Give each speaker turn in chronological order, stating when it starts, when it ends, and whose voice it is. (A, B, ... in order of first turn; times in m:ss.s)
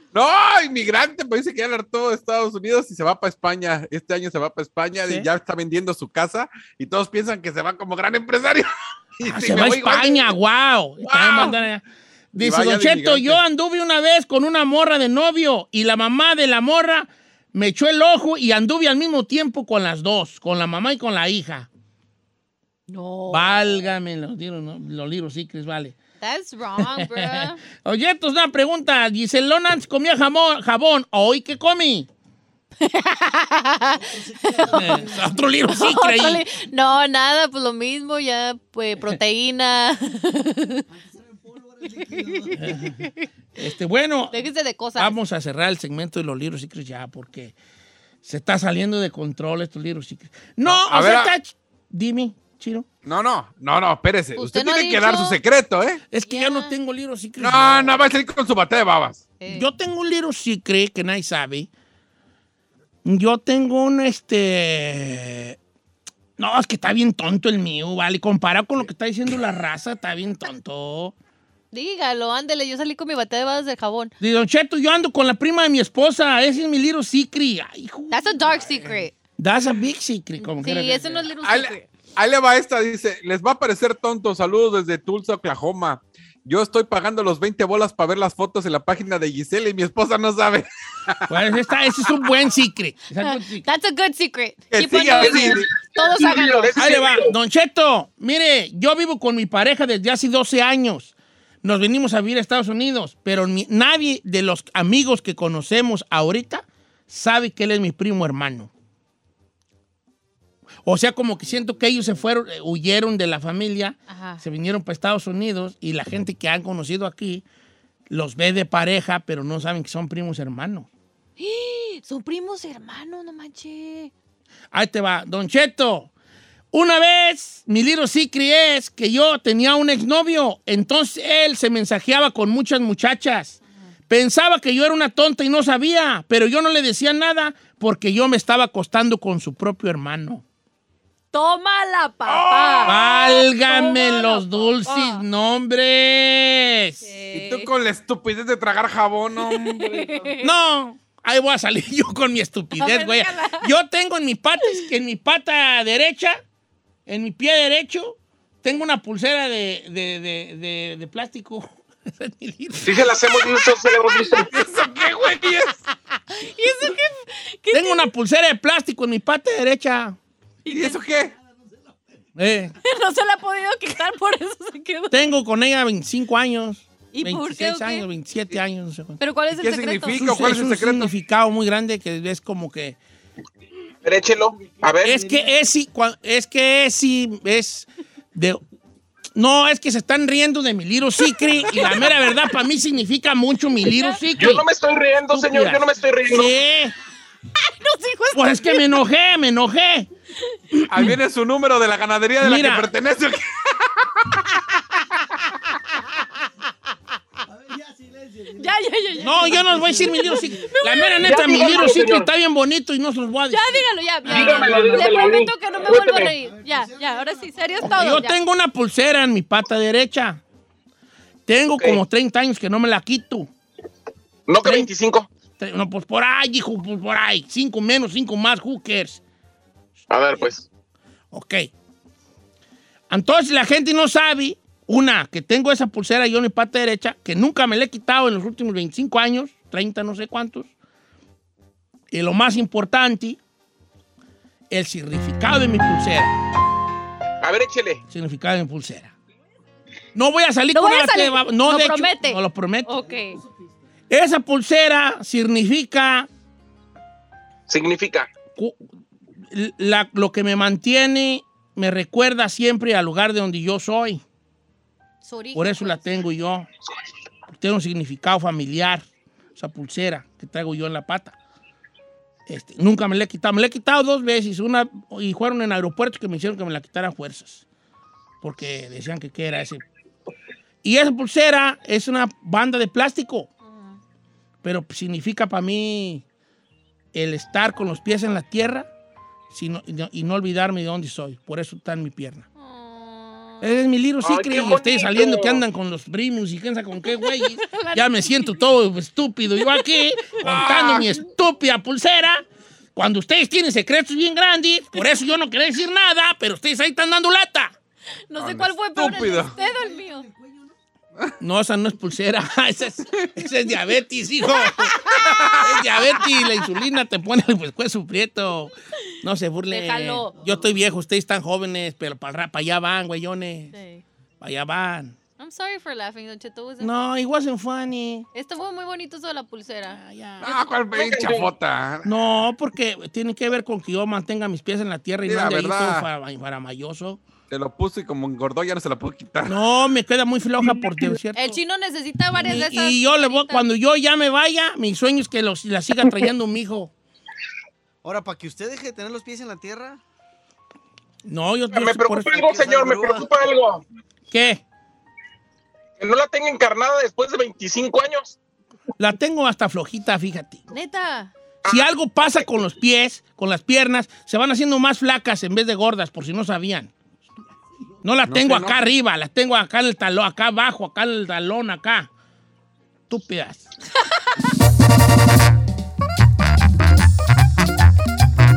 0:00.1-0:10.3 A
0:09.2-0:21.7 B
0:11.0-0:11.6 A
0:12.4-0:13.4 A
0:22.9-0:23.8 C
0:23.3-0:26.0 B
0:26.2-0:27.6 C
0:26.8-0:32.1 B
0:32.8-0:40.8 C
0:34.1-0:34.5 D
0:34.6-0:36.4 B
0:41.2-0:41.8 D
0:42.0-0:43.3 C
0:42.5-0:47.5 B
0:44.3-0:45.2 C
0:48.2-0:52.9 B
0:50.6-0:51.3 A
0:53.0-0:56.0 A
0:54.4-0:55.4 C
0:56.1-0:58.0 B
0:56.2-0:56.7 C
0:57.4-0:59.2 A
0:59.4-0:59.7 C
0:59.5-1:01.7 B
1:03.0-1:05.6 B
1:06.4-1:11.1 B
1:11.7-1:14.1 C
1:14.2-1:21.3 B
1:18.1-1:19.2 C
1:20.4-1:21.9 C
1:21.4-1:31.3 A
1:31.3-1:33.6 B
1:33.2-1:37.1 C
1:34.7-1:35.7 A
1:35.2-1:37.3 E
1:36.8-1:48.7 B
1:50.8-1:57.4 B
1:54.1-1:54.4 C
1:58.1-2:00.9 B
2:01.4-2:04.1 C
2:04.7-2:06.1 B
2:06.7-2:13.6 B
2:14.1-2:20.4 B
2:21.3-2:25.2 C
2:22.3-2:23.0 A
2:22.8-2:27.1 B
2:27.0-2:27.7 C
2:27.3-2:30.2 A
2:29.4-2:30.5 C
2:30.4-2:36.4 B
2:32.8-2:33.7 C
2:37.1-2:43.2 B
2:42.8-2:44.5 E
2:44.3-2:45.8 A
2:46.3-2:48.1 C
2:47.7-2:50.2 B
2:50.6-2:51.0 C
2:50.7-2:51.3 A
2:52.4-2:52.8 B
2:52.8-2:55.3 C
2:55.1-2:59.2 B
2:57.1-2:58.1 C
2:59.2-3:00.2 C
2:59.6-3:01.1 A
3:00.1-3:03.0 B
3:04.0-3:05.2 E
3:05.0-3:08.6 B
3:09.4-3:14.7 B
3:11.7-3:12.4 C
3:13.9-3:14.2 C
3:14.4-3:16.5 E
3:15.3-3:17.0 B
3:17.6-3:19.0 C
3:18.3-3:20.1 B
3:20.7-3:21.2 B
3:20.9-3:24.2 A
3:22.4-3:22.9 B
3:27.7-3:28.5 D
3:28.5-3:32.0 C
3:29.2-3:35.0 B
3:31.2-3:32.3 E
3:33.5-3:38.4 C
3:34.3-3:36.3 E
3:36.8-3:37.2 D
3:37.8-3:40.4 B
3:41.5-3:43.5 B
3:44.5-3:45.3 E
3:44.6-3:44.9 B
3:45.6-3:49.2 B
3:50.1-3:50.6 E
3:51.3-3:51.7 B
3:53.1-4:00.7 B
4:02.1-4:03.4 B
4:04.7-4:06.3 B
4:07.4-4:08.0 E
4:08.1-4:09.1 B
4:10.2-4:13.1 B
4:10.7-4:13.4 C
4:14.1-4:16.3 B
4:17.7-4:18.3 E
4:19.5-4:24.2 B
4:25.2-4:26.1 C
4:25.6-4:26.7 B
4:27.5-4:29.0 B
4:29.6-4:31.4 B
4:32.5-4:37.6 B
4:38.4-4:39.8 B
4:40.8-4:43.5 B
4:43.6-4:44.0 C
4:44.6-4:46.2 B
4:47.1-4:48.9 B
4:49.5-4:52.4 B
4:52.6-4:53.7 C
4:53.6-5:02.4 B
4:54.2-4:55.6 E
4:57.0-4:58.6 C
4:59.6-5:00.4 C
5:00.4-5:01.1 A
5:03.0-5:07.7 B
5:08.3-5:10.3 C
5:08.4-5:09.6 A
5:10.3-5:10.6 D
5:11.4-5:23.7 B
5:14.5-5:15.5 C
5:15.1-5:15.7 A
5:16.1-5:16.6 C
5:19.7-5:20.3 C
5:23.7-5:24.0 C
5:24.4-5:25.2 B
5:25.4-5:26.9 C
5:26.8-5:28.3 B
5:28.3-5:30.0 C
5:29.9-5:30.5 B
5:30.4-5:32.1 A
5:31.0-5:31.5 E
5:32.0-5:37.2 B
5:35.2-5:36.1 A
5:37.5-5:39.6 A
5:39.5-5:41.6 B
5:41.4-5:43.7 C
5:42.3-5:46.9 B
5:48.0-5:50.0 D
5:51.2-5:52.6 B
5:51.7-5:53.8 E
5:52.3-5:53.3 D
5:54.3-5:54.6 B
5:56.0-5:58.4 E
5:59.0-6:00.6 B
6:00.7-6:01.3 C
6:01.6-6:06.9 B
6:08.0-6:12.1 B
6:08.3-6:08.8 A
6:13.1-6:13.7 B